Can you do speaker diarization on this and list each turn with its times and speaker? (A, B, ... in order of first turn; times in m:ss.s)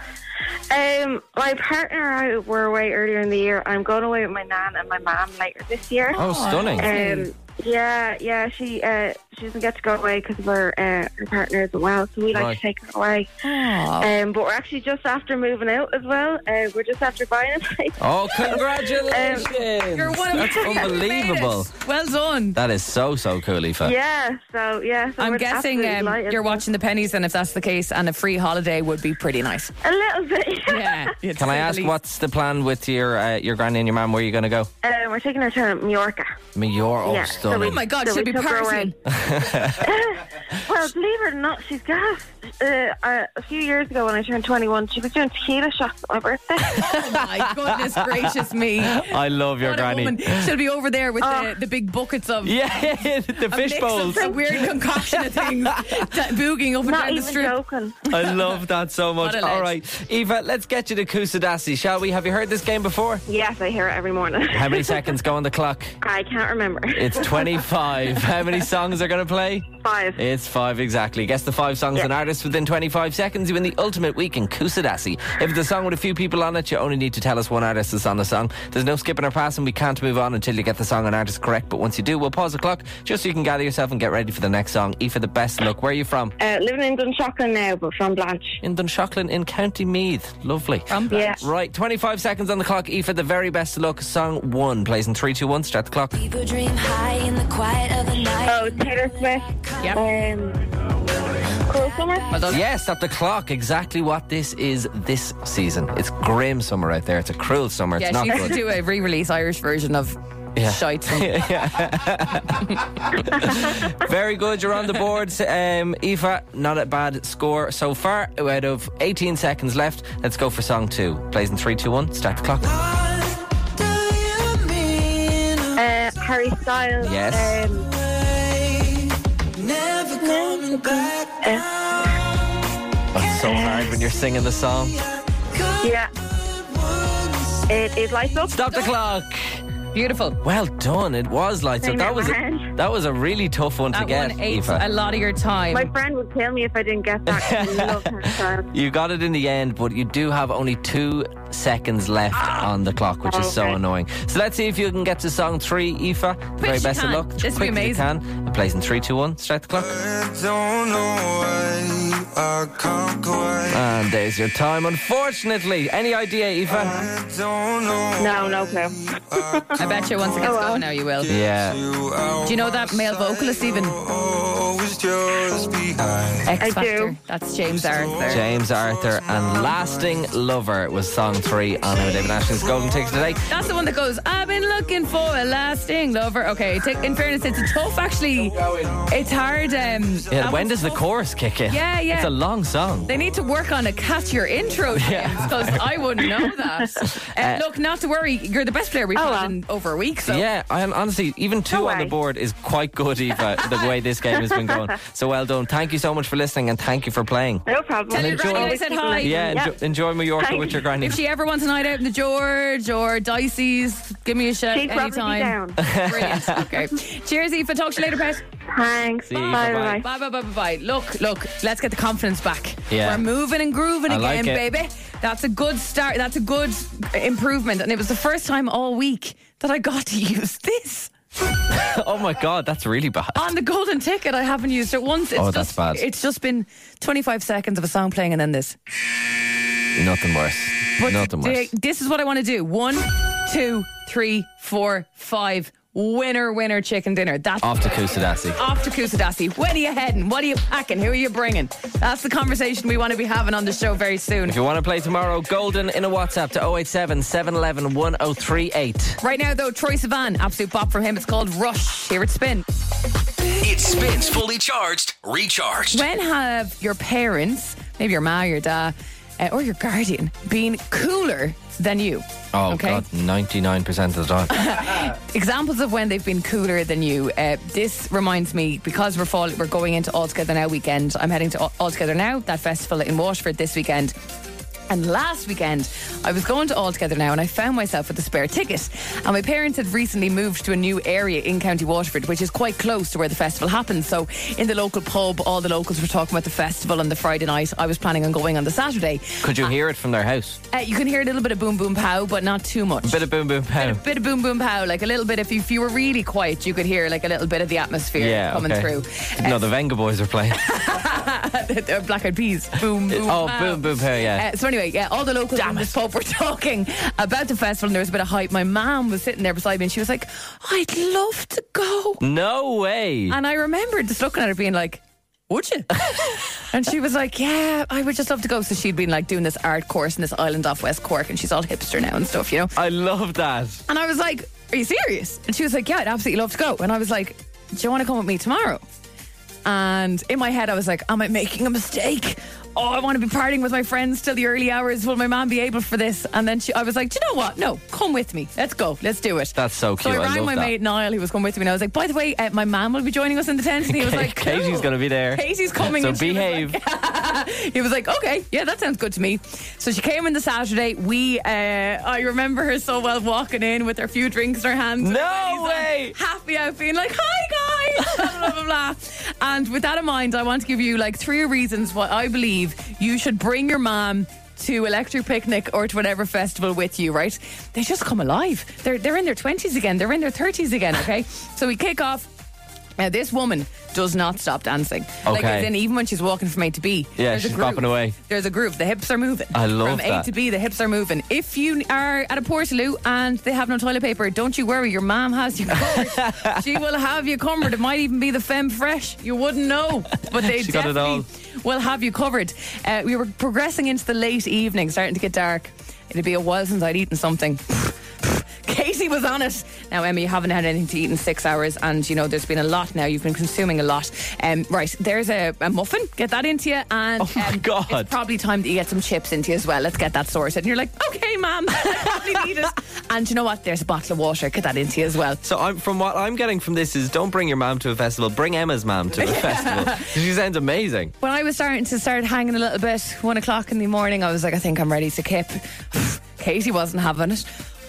0:00.7-0:13.3 A
0:06.2-0:07.3 B
0:06.2-0:06.9 C
0:12.3-0:12.6 C
0:13.4-0:14.1 B
0:14.0-0:19.5 A
0:18.0-0:21.7 C
0:18.3-0:22.6 B
0:20.7-0:20.9 A
0:22.6-0:24.0 C
0:23.8-0:26.6 A
0:25.2-0:29.8 B
0:29.8-0:31.1 A
0:30.7-0:31.9 B
0:31.4-0:34.7 C
0:34.8-0:36.4 A
0:36.6-0:37.8 C
0:37.0-0:38.9 A
0:37.6-0:39.0 B
0:39.1-0:39.9 C
0:39.8-0:47.0 A
0:46.7-0:50.5 C
0:46.7-0:52.7 B
0:51.2-0:51.6 A
0:52.4-0:56.1 C
0:53.4-0:58.6 B
0:54.0-0:54.4 A
0:56.8-0:58.0 A
0:58.1-1:03.2 C
0:59.2-0:59.7 B
1:03.3-1:05.0 A
1:04.5-1:06.0 C
1:06.0-1:07.7 A
1:06.9-1:26.3 C
1:09.8-1:10.2 A
1:26.4-1:28.6 A
1:28.6-1:36.2 C
1:30.9-1:31.4 B
1:31.1-1:31.4 A
1:36.1-1:40.2 D
1:38.4-1:40.6 A
1:41.6-1:42.5 D
1:41.7-1:42.3 A
1:42.3-1:42.6 B
1:42.5-1:48.6 C
1:48.0-1:51.6 B
1:50.6-2:05.8 C
2:05.8-2:07.9 A
2:07.0-2:08.9 C
2:09.6-2:11.1 C
2:10.2-2:11.7 A
2:13.1-2:15.0 C
2:15.8-2:16.1 A
2:17.7-2:18.8 A
2:18.5-2:19.6 C
2:19.9-2:20.4 B
2:20.4-2:24.8 C
2:21.8-2:22.7 A
2:23.9-2:25.9 B
2:25.7-2:28.7 A
2:27.3-2:40.0 C
2:33.3-2:33.8 A
2:36.6-2:38.1 B
2:39.7-2:44.0 E
2:43.7-2:47.1 C
2:46.7-2:50.3 E
2:48.2-2:49.8 A
2:49.8-2:51.4 B
2:50.4-2:50.9 A
2:51.1-2:56.5 E
2:51.3-2:51.8 C
2:52.4-2:54.0 B
2:56.5-2:58.5 B
2:56.6-2:57.2 A
2:57.6-3:00.1 E
2:58.3-3:03.5 C
3:02.2-3:03.1 E
3:03.5-3:11.1 B
3:08.6-3:09.0 C
3:09.4-3:09.9 E
3:10.3-3:13.1 C
3:11.7-3:12.4 B
3:13.1-3:20.5 B
3:14.9-3:15.9 C
3:17.4-3:17.6 C
3:19.2-3:19.5 A
3:20.3-3:31.2 C
3:21.7-3:22.2 A
3:27.7-3:29.8 A
3:28.1-3:29.6 B
3:30.4-3:30.8 A
3:31.0-3:38.4 B
3:34.7-3:35.8 A
3:35.8-3:36.8 C
3:38.7-3:40.1 A
3:39.3-3:40.0 C
3:39.7-3:51.1 B
3:42.9-3:43.2 C
3:44.1-3:44.6 C
3:51.7-3:53.5 C
3:53.3-3:58.8 B
3:55.4-3:56.0 C
4:00.0-4:01.7 C
4:01.0-4:14.6 B
4:07.6-4:08.6 C
4:14.4-4:19.2 C
4:19.2-4:22.7 B
4:23.6-4:26.0 F
4:25.9-4:33.1 B
4:32.5-4:34.7 C
4:34.5-4:44.2 B
4:44.9-4:59.7 B
4:59.4-5:00.6 C
5:00.7-5:09.6 B
5:03.0-5:04.0 C
5:08.2-5:10.6 C
5:10.5-5:22.2 B
5:13.1-5:14.5 C
5:15.6-5:15.9 C
5:22.2-5:23.4 C
5:23.3-5:32.7 B
5:32.8-5:33.8 C
5:33.9-5:38.8 B
5:39.6-6:22.3 B
5:49.6-5:50.7 C
5:53.8-5:56.8 C
6:05.0-6:06.2 C
6:23.0-7:05.4 B
6:25.2-6:25.7 C
6:27.2-6:28.2 C
6:29.5-6:30.3 C
6:35.8-6:36.6 C
6:40.3-6:41.3 C
6:57.2-6:58.1 C
7:05.4-7:11.1 C
7:09.2-7:10.2 B
7:11.2-7:17.5 B